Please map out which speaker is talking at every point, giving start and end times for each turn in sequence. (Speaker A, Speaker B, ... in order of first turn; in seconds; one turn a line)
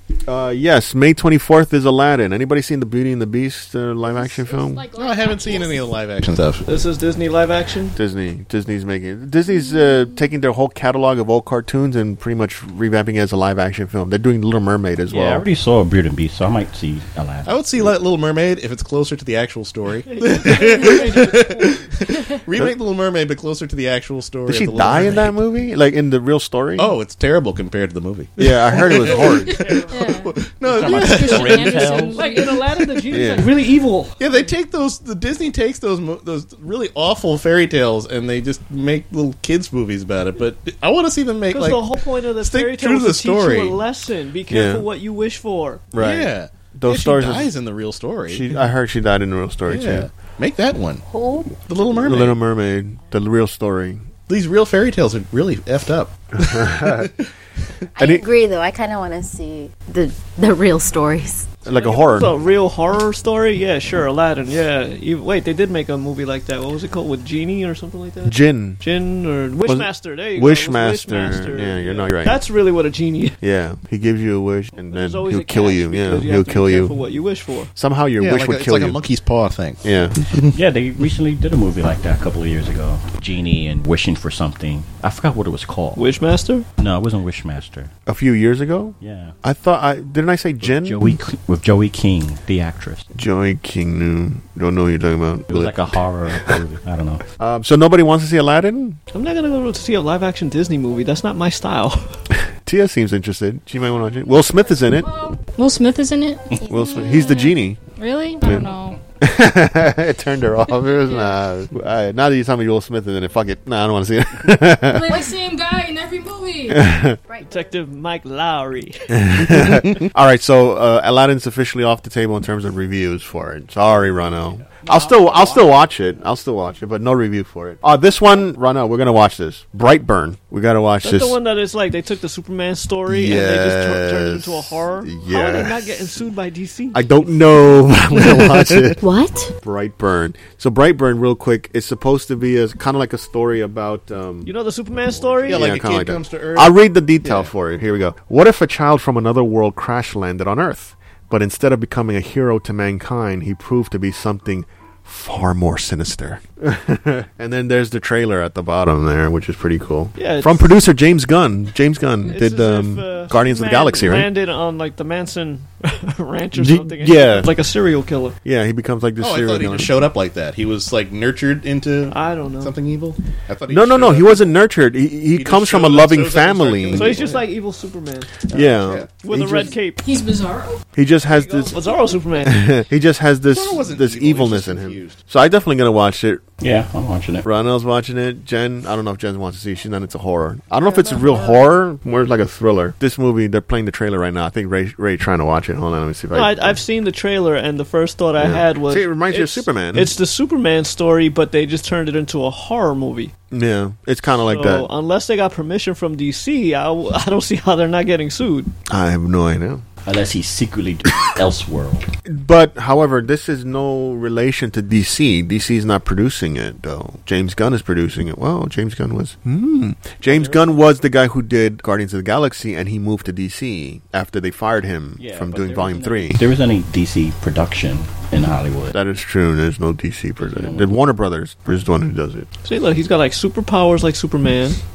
Speaker A: 0.3-4.9
Speaker B: 4.0-5.9
Speaker C: 4.9-6.7
Speaker D: 6.6-8.0
Speaker A: 7.9-15.4
Speaker E: 15.1-17.9
Speaker C: 17.4-25.3
Speaker D: 20.1-21.9
Speaker A: 24.4-26.9
Speaker E: 24.8-25.2
Speaker C: 26.8-32.0
Speaker A: 28.4-29.7
Speaker D: 28.9-30.1
Speaker B: 29.9-32.6
Speaker E: 30.6-32.2
Speaker D: 32.1-34.2
Speaker A: 33.1-33.5
Speaker C: 34.2-43.8
Speaker D: 41.5-45.8
Speaker A: 44.5-44.9
Speaker A: 45.9-47.5
Speaker C: 46.0-48.6
Speaker A: 48.3-50.1
Speaker C: 49.7-51.0
Speaker F: 51.0-51.6
Speaker C: 51.6-52.4
Speaker A: 51.9-54.0
Speaker C: 54.3-57.3
Speaker A: 56.4-57.1
Speaker F: 58.0-61.5
Speaker A: 58.0-58.2
Speaker A: 61.6-62.3
Speaker D: 61.6-73.4
Speaker A: 68.2-68.8
Speaker A: 69.6-72.4
Speaker A: 73.4-77.0
Speaker D: 74.9-77.7
Speaker A: 77.8-79.0
Speaker C: 78.2-80.5
Speaker A: 79.8-80.2
Speaker E: 80.5-86.0
Speaker D: 86.0-86.7
Speaker E: 86.8-87.9
Speaker A: 88.1-91.2
Speaker E: 89.0-89.3
Speaker E: 90.6-93.0
Speaker A: 93.1-95.8
Speaker E: 95.5-97.2
Speaker A: 97.4-99.0
Speaker D: 99.1-102.2
Speaker A: 102.6-105.1
Speaker B: 105.0-109.0
Speaker A: 106.7-107.8
Speaker A: 108.4-108.7
Speaker A: 109.2-115.3
Speaker B: 111.1-111.3
Speaker B: 114.9-116.8
Speaker A: 116.7-117.2
Speaker F: 117.3-117.7
Speaker D: 117.4-119.2
Speaker A: 119.1-131.3
Speaker E: 124.8-125.7
Speaker D: 131.0-137.1
Speaker A: 133.1-135.9
Speaker A: 136.9-139.0
Speaker F: 139.0-139.5
Speaker A: 139.6-144.5
Speaker D: 144.4-145.7
Speaker A: 145.4-164.3
Speaker C: 145.5-147.5
Speaker D: 160.2-160.7
Speaker D: 162.3-168.3
Speaker A: 166.5-167.5
Speaker A: 168.4-170.0
Speaker C: 169.2-174.6
Speaker D: 172.1-172.7
Speaker A: 173.7-177.2
Speaker C: 175.3-177.5
Speaker D: 176.9-178.3
Speaker C: 178.5-179.1
Speaker A: 178.5-179.7
Speaker D: 179.2-180.0
Speaker B: 180.0-180.8
Speaker A: 180.9-181.8
Speaker D: 181.3-182.7
Speaker A: 182.4-186.4
Speaker C: 183.5-185.2
Speaker E: 186.6-187.4
Speaker A: 187.4-196.8
Speaker C: 190.9-191.5
Speaker D: 196.3-203.3
Speaker A: 198.4-200.1
Speaker A: 203.5-204.9
Speaker D: 204.4-208.7
Speaker A: 208.9-209.8
Speaker E: 210.0-212.1
Speaker A: 212.2-226.4
Speaker E: 220.3-220.6
Speaker E: 225.2-229.0
Speaker A: 228.9-232.5
Speaker E: 230.4-230.9
Speaker D: 232.6-234.8